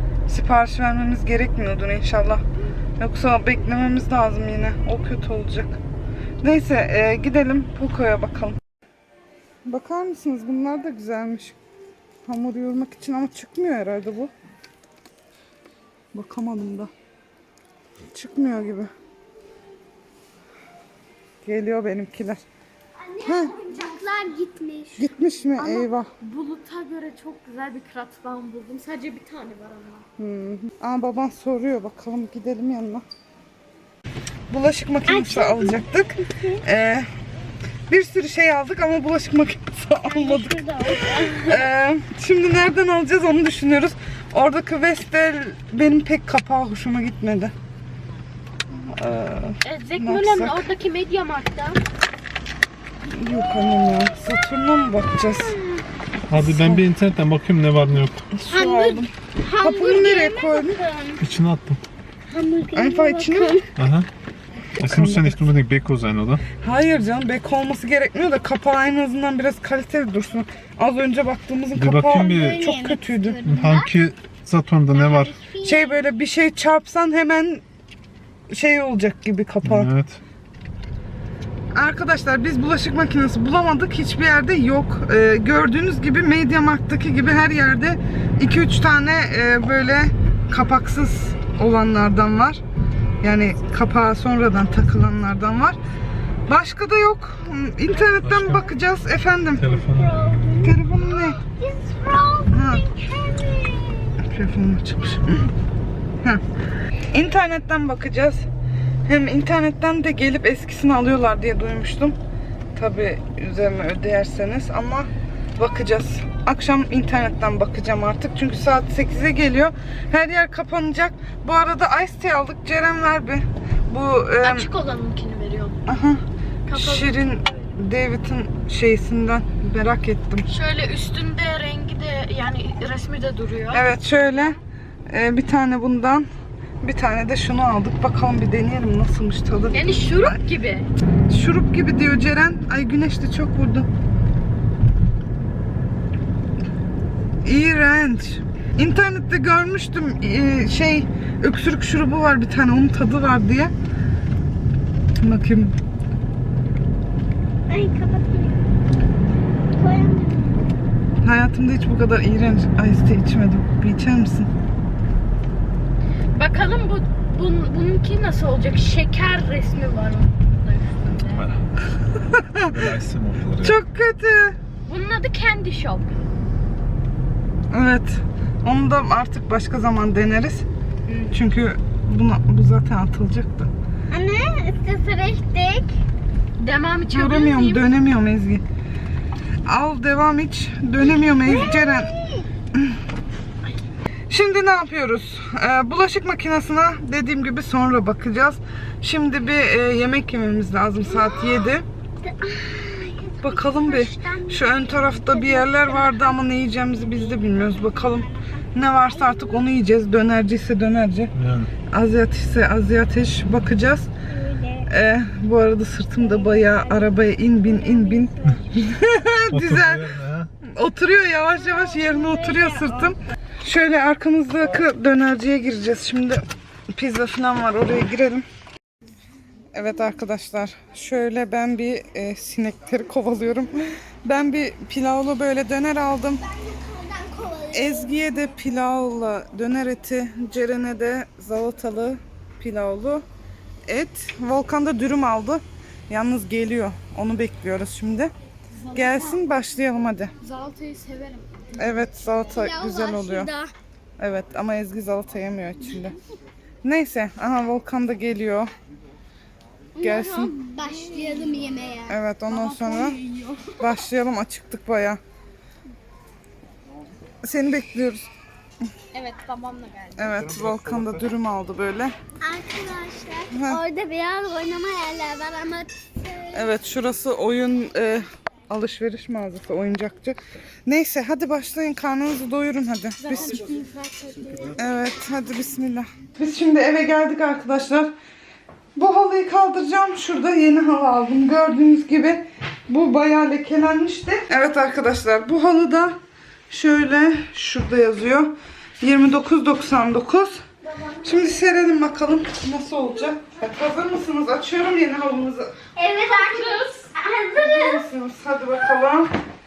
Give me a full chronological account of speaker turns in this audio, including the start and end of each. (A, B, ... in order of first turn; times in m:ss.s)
0:00.3-0:02.4 A
0:03.0-0:05.8 A
0:06.4-0:08.6 A
0:09.6-0:11.6 A
0:12.2-0:14.3 A
0:16.1-0:16.9 A
0:18.1-0:18.9 A
0:21.4-0:22.4 A
0:23.1-0:25.0 B
0:23.2-0:23.6 A
0:24.9-0:26.1 A
0:25.6-0:30.0 C
0:30.2-0:33.0 A
0:34.5-0:37.1 A
0:35.1-0:36.6 B
0:37.9-0:40.6 A
0:40.1-0:41.6 B
0:41.3-0:47.5 A
0:48.8-0:50.7 A
0:49.6-0:51.8 C
0:53.1-0:55.6 A
0:56.3-0:58.3 D
0:56.3-0:56.8 A
0:58.3-1:00.8 A
0:58.5-1:01.2 B
1:01.2-1:01.8 D
1:02.3-1:03.6 B
1:02.7-1:03.6 A
1:03.8-1:04.1 D
1:04.8-1:06.4 D
1:04.8-1:05.5 A
1:06.6-1:13.4 A
1:11.8-1:12.6 D
1:12.1-1:13.9 B
1:13.4-1:15.4 D
1:14.9-1:15.9 B
1:15.6-1:17.6 A
1:18.5-1:19.9 A
1:19.6-1:20.2 D
1:21.7-1:32.6 A
1:33.2-1:35.8 A
1:36.5-1:39.7 A
1:38.2-1:38.7 D
1:39.6-1:40.5 D
1:39.8-1:44.1 B
1:40.6-1:41.4 A
1:42.5-1:42.8 A
1:44.2-1:45.5 A
1:47.1-1:48.4 A
1:49.1-1:52.2 A
1:52.7-2:04.7 A
2:04.4-2:05.8 C
2:05.9-2:06.2 A
2:06.7-2:07.1 C
2:06.7-2:10.5 A
2:10.5-2:13.8 C
2:13.7-2:14.6 A
2:15.1-2:16.3 A
2:16.8-2:20.3 A
2:19.7-2:20.9 C
2:21.3-2:23.9 A
2:27.4-2:33.7 A
2:35.2-2:35.7 A
2:37.7-2:38.7 B
2:39.7-2:40.6 B
2:41.2-2:44.5 A
2:46.3-2:51.5 C
2:51.3-2:51.6 D
2:52.2-2:52.7 A
2:52.5-2:53.8 D
2:53.6-2:54.6 A
2:54.9-2:56.2 C
2:57.7-3:00.7 A
3:01.1-3:01.3 C
3:01.3-3:03.7 A
3:04.1-3:05.9 B
3:06.6-3:07.8 C
3:07.1-3:08.6 A
3:09.6-3:12.1 A
3:11.4-3:12.5 B
3:14.3-3:21.8 A
3:21.0-3:26.4 B
3:23.4-3:31.3 A
3:27.3-3:28.6 B
3:29.2-3:29.6 B
3:31.3-3:31.7 D
3:31.9-3:34.1 A
3:34.3-3:34.8 B
3:34.8-3:40.1 A
3:36.4-3:37.1 B
3:37.7-3:38.6 B
3:39.5-3:40.5 D
3:40.6-3:48.4 A
3:42.0-3:42.4 B
3:49.7-3:56.4 A
3:56.5-3:58.1 B
3:57.7-4:03.2 A
4:03.8-4:08.3 A
4:08.8-4:09.4 C
4:08.9-4:10.3 A
4:10.4-4:11.7 C
4:11.8-4:13.5 A
4:12.5-4:13.7 B
4:14.2-4:16.2 A
4:16.8-4:18.7 A
4:20.0-4:22.2 B
4:20.0-4:20.5 A
4:20.9-4:21.5 C
4:22.1-4:23.2 A
4:22.5-4:23.6 C
4:23.8-4:25.2 A
4:27.4-4:28.3 A
4:29.1-4:30.1 C
4:30.2-4:32.2 A
4:30.2-4:31.2 D
4:32.4-4:36.6 B
4:33.5-4:33.8 A
4:36.5-4:43.6 A
4:43.2-4:44.7 C
4:43.5-4:43.8 D
4:44.4-4:44.8 D
4:44.8-4:48.1 A
4:49.0-4:56.2 A
4:56.7-5:00.6 A
5:01.2-5:05.7 A
5:05.9-5:08.0 B
5:06.3-5:07.0 C
5:07.5-5:09.3 A